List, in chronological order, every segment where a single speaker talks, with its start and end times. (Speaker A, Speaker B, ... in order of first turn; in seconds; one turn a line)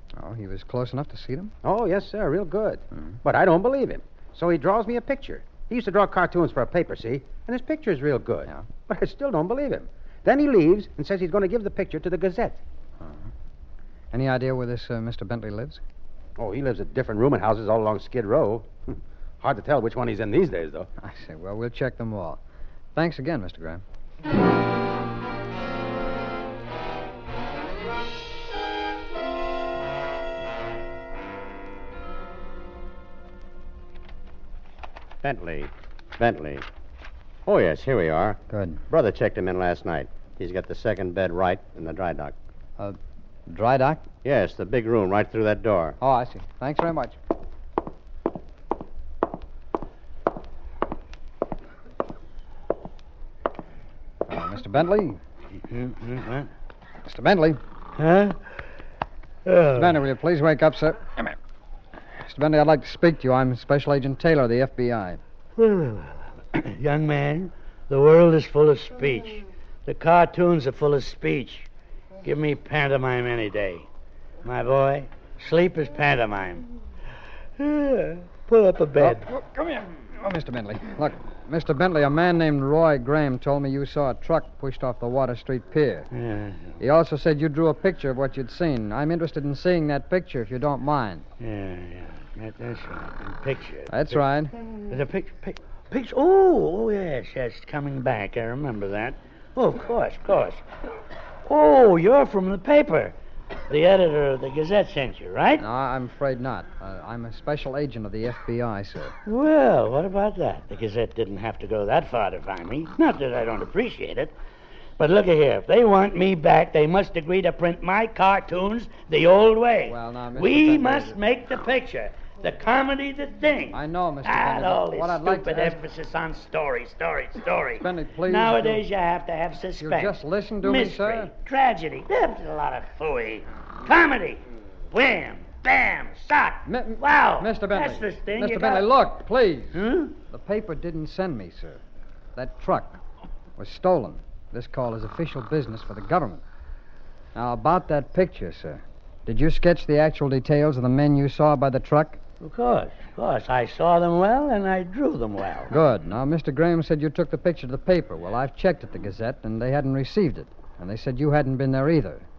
Speaker A: 0.1-1.5
Speaker B: 1.6-12.6
Speaker A: 13.0-13.3
Speaker A: 14.1-15.8
Speaker B: 16.4-20.9
Speaker A: 21.0-22.4
Speaker A: 22.9-23.8
Speaker C: 35.2-36.6
Speaker C: 37.5-38.4
Speaker A: 38.5-38.8
Speaker C: 38.9-42.4
Speaker A: 43.5-44.1
Speaker C: 44.2-46.0
Speaker A: 46.0-47.2
Speaker A: 54.3-55.2
Speaker D: 55.6-56.5
Speaker A: 57.0-57.6
Speaker D: 58.0-58.5
Speaker D: 59.5-60.0
Speaker A: 59.8-61.4
Speaker A: 62.2-65.2
Speaker D: 65.6-71.7
Speaker D: 72.2-73.9
Speaker D: 74.4-76.7
Speaker D: 77.6-79.2
Speaker A: 79.0-86.1
Speaker D: 86.1-86.8
Speaker A: 86.8-91.3
Speaker D: 91.4-94.2
Speaker A: 93.9-94.5
Speaker D: 94.9-100.6
Speaker D: 101.5-103.2
Speaker D: 103.7-105.6
Speaker A: 105.6-109.2
Speaker D: 109.3-114.3
Speaker D: 115.0-138.9
Speaker A: 119.9-121.2
Speaker A: 123.7-125.8
Speaker A: 127.8-128.8
Speaker A: 129.8-131.3
Speaker A: 136.7-141.8
Speaker D: 139.7-140.2
Speaker A: 142.4-143.0
Speaker A: 143.6-146.4
Speaker A: 147.3-152.2
Speaker D: 152.4-155.7
Speaker A: 155.7-162.3